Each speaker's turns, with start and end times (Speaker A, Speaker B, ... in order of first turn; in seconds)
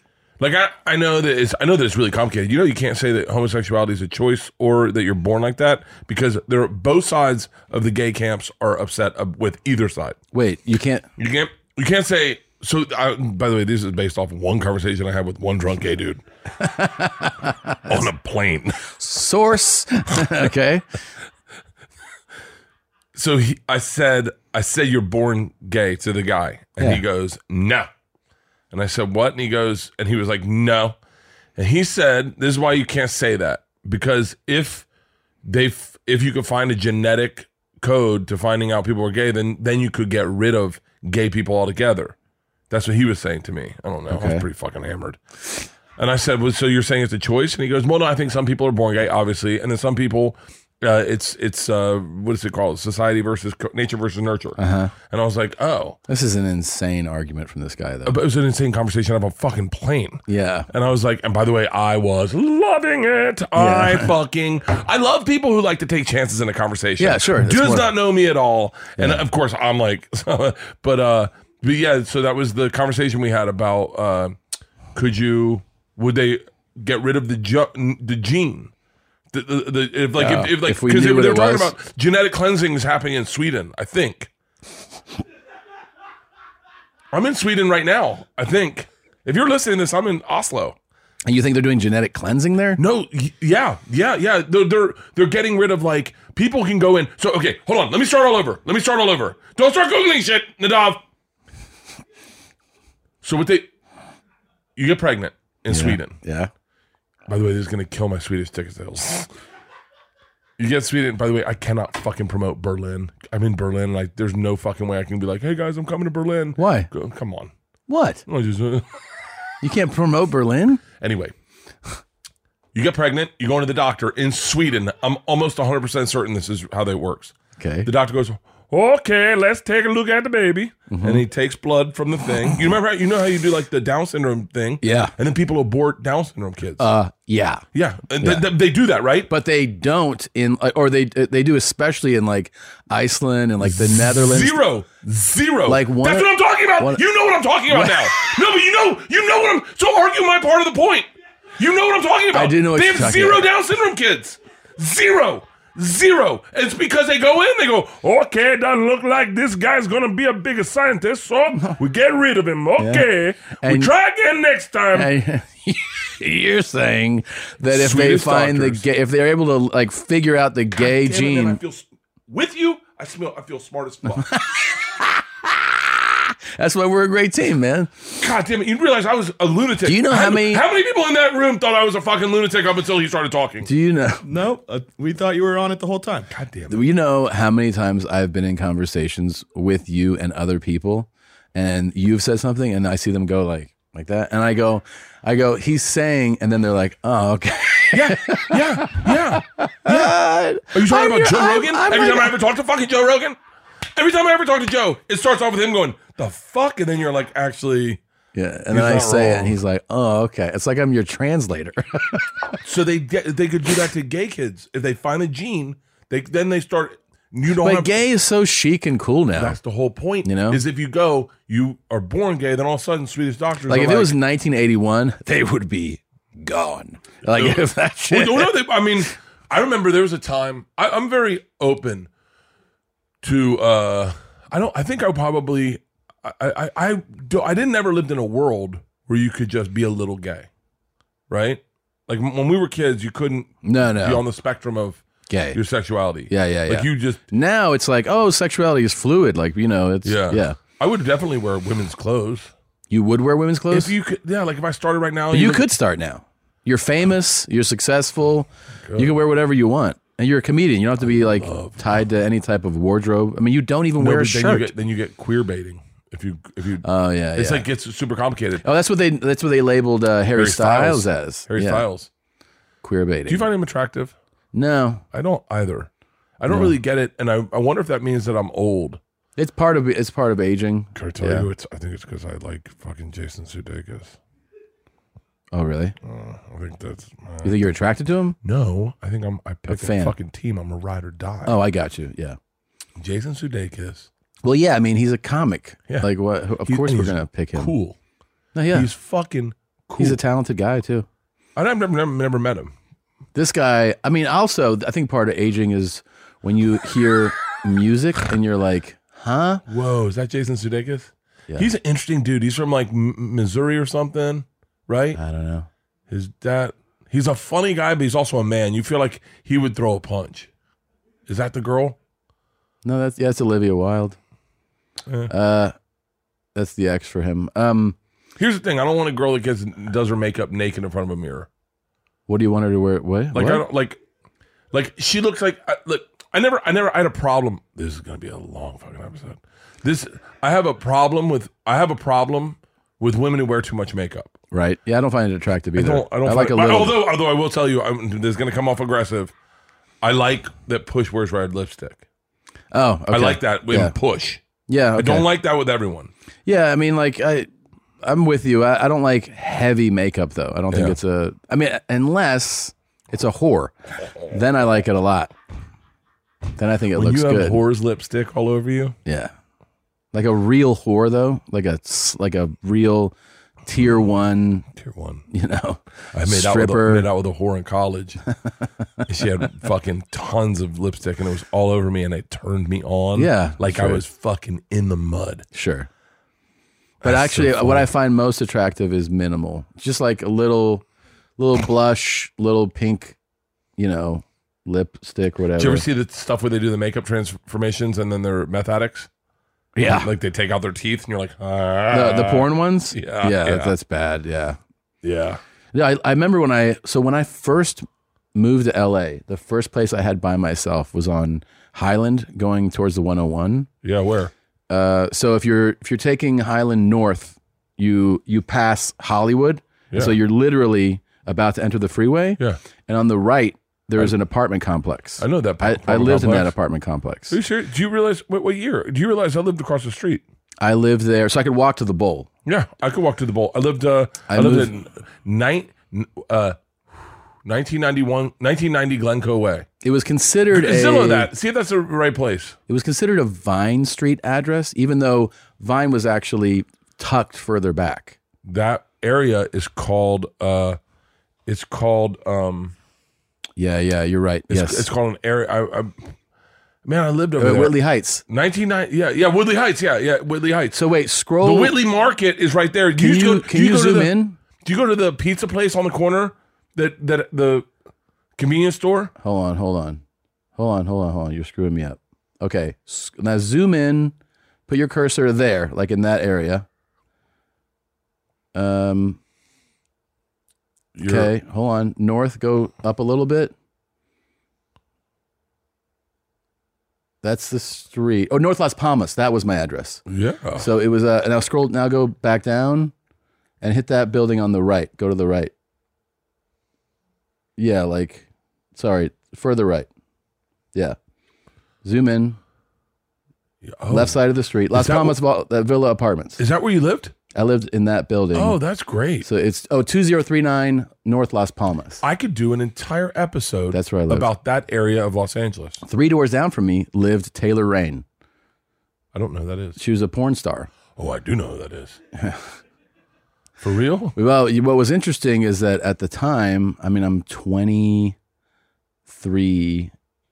Speaker A: 0.4-10.2, 11.2-16.2, 17.9-18.9, 23.1-27.9, 28.7-31.0, 31.6-34.9, 35.4-42.1, 42.7-45.2, 46.0-56.0, 58.0-74.4, 74.9-78.7, 79.3-84.3, 87.1-90.8, 92.8-101.0, 103.2-103.7, 104.8-106.2, 107.3-109.3, 110.6-117.5, 118.2-119.0, 121.0-121.3, 122.7-136.9, 137.7-139.3, 143.6-165.1, 167.7-168.8, 170.7-174.3, 178.2-183.7, 186.3-186.9, 197.9-203.4, 203.9-208.0, 208.7-209.6, 212.6-217.9, 219.3-224.2, 227.3-232.1, 233.2-240.5, 241.3-247.2, 250.0-252.5, 253.7-255.7, 258.8-259.1, 261.0-262.0, 264.0-268.6, 270.3-272.1, 273.3-274.1, 275.1-279.0, 280.9-284.2, 286.0-287.7, 288.4-291.5, 293.0-294.1, 296.6-298.0, 298.7-300.2, 301.6-302.7, 309.7-315.2, 316.1-320.5, 321.3-322.0, 325.1-325.3, 328.4-331.5, 333.3-334.0, 334.7-344.4, 345.8-349.3, 350.0-352.0, 353.1-354.4, 354.9-356.1, 360.7-361.0, 366.9-368.9, 374.7-375.2, 376.1-378.2, 379.1-385.4, 387.0-387.9, 395.6-399.1, 399.8-403.8, 405.0-405.4, 413.8-414.3, 425.2-426.5, 427.3-430.2, 432.4-436.6, 437.4-439.7, 440.5-442.6, 448.4-450.8, 451.4-452.7, 454.5-456.1, 456.8-457.8, 458.3-460.9, 461.4-467.7, 468.4-469.1, 480.9-481.3, 490.1-490.7, 503.6-504.1, 504.7-505.2, 506.4-507.1, 508.3-509.3, 512.0-515.8, 519.1-519.8, 521.0-522.0, 523.6-524.1
Speaker B: 10.3-11.1, 16.6-17.8, 19.0-20.9, 44.1-44.5, 54.6-54.9, 56.1-58.1, 60.3-60.7, 63.5-64.1, 67.0-67.9, 69.0-69.2, 80.2-81.7, 91.2-92.8, 105.7-106.5, 116.6-116.9, 117.9-118.2, 119.6-120.8, 127.6-127.9, 130.9-131.2, 134.8-135.1, 136.8-137.6, 138.2-138.5, 139.3-144.6, 145.7-147.0, 147.7-148.3, 152.3-153.4, 162.8-163.9, 164.9-171.6, 174.2-178.1, 179.8-180.6, 183.6-184.2, 186.7-202.3, 208.3-212.6, 217.5-219.6, 220.2-220.6, 223.7-228.5, 243.6-244.2, 245.3-245.6, 246.3-250.6, 252.9-253.9, 255.3-264.7, 266.8-267.6, 268.6-271.8, 272.8-273.5, 274.5-275.0, 276.5-276.7, 279.4-281.5, 285.5-285.9, 287.4-288.4, 289.6-290.1, 291.4-292.4, 294.4-297.7, 298.5-298.9, 300.0-301.1, 303.3-309.6, 315.1-315.7, 322.8-324.2, 325.3-325.7, 326.5-327.9, 332.3-333.6, 344.5-347.0, 352.7-353.9, 354.7-355.3, 356.4-357.5, 358.0-365.3, 366.6-367.6, 369.1-369.3, 370.1-373.1, 373.6-374.6, 375.3-377.1, 383.1-384.0, 385.5-385.9, 387.0-390.8, 391.4-393.1, 393.8-395.8, 399.8-400.1, 401.9-404.6, 405.7-413.7, 414.7-427.4, 430.6-432.3, 434.3-434.7, 439.8-441.3, 442.7-448.2, 453.6-454.9, 457.4-458.2, 460.7-461.8, 463.0-464.4, 469.2-470.0, 470.6-474.1, 474.7-476.6, 478.5-479.2, 481.0-483.5, 487.2-490.0, 490.6-492.9, 493.6-495.5, 497.6-499.9, 501.8-502.4, 503.9-506.4, 507.3-508.6, 509.2-512.0, 513.7-514.3, 515.8-518.0, 519.8-520.7, 522.1-522.5, 524.1-528.1, 529.1-529.9
Speaker C: 184.2-186.3